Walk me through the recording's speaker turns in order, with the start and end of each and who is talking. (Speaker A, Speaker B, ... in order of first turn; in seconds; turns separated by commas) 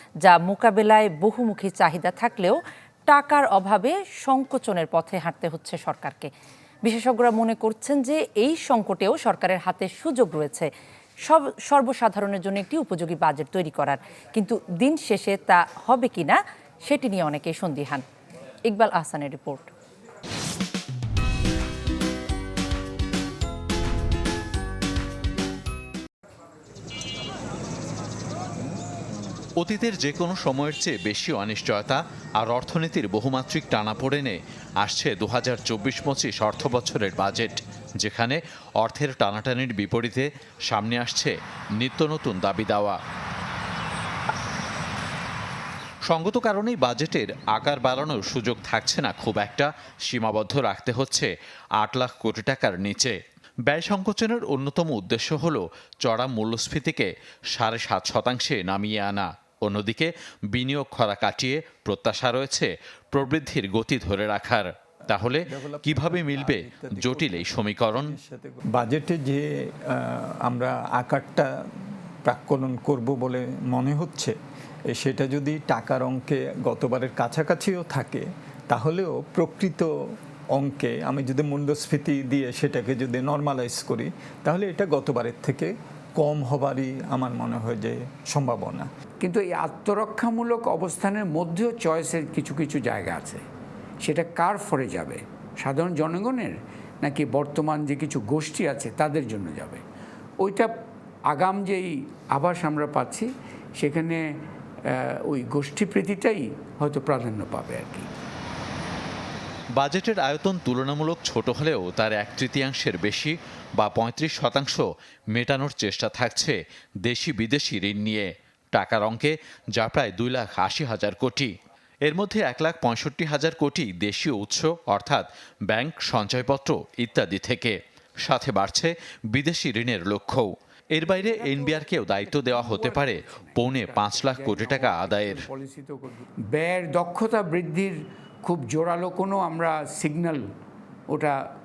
Speaker A: 0.2-6.3, Speaker A: 6.8-10.7, Speaker A: 11.2-18.0, Speaker A: 18.6-19.7, Speaker B: 29.6-43.0, Speaker B: 46.1-53.2, Speaker B: 53.7-68.1, Speaker C: 65.4-71.5, Speaker C: 72.2-74.3, Speaker C: 74.9-79.9, Speaker C: 80.5-88.9, Speaker D: 89.2-93.4, Speaker D: 94.0-99.8, Speaker D: 100.4-100.7, Speaker D: 101.3-104.2, Speaker D: 104.9-108.1, Speaker B: 109.8-121.5, Speaker B: 122.0-135.4, Speaker D: 131.0-140.4, Speaker D: 141.1-141.3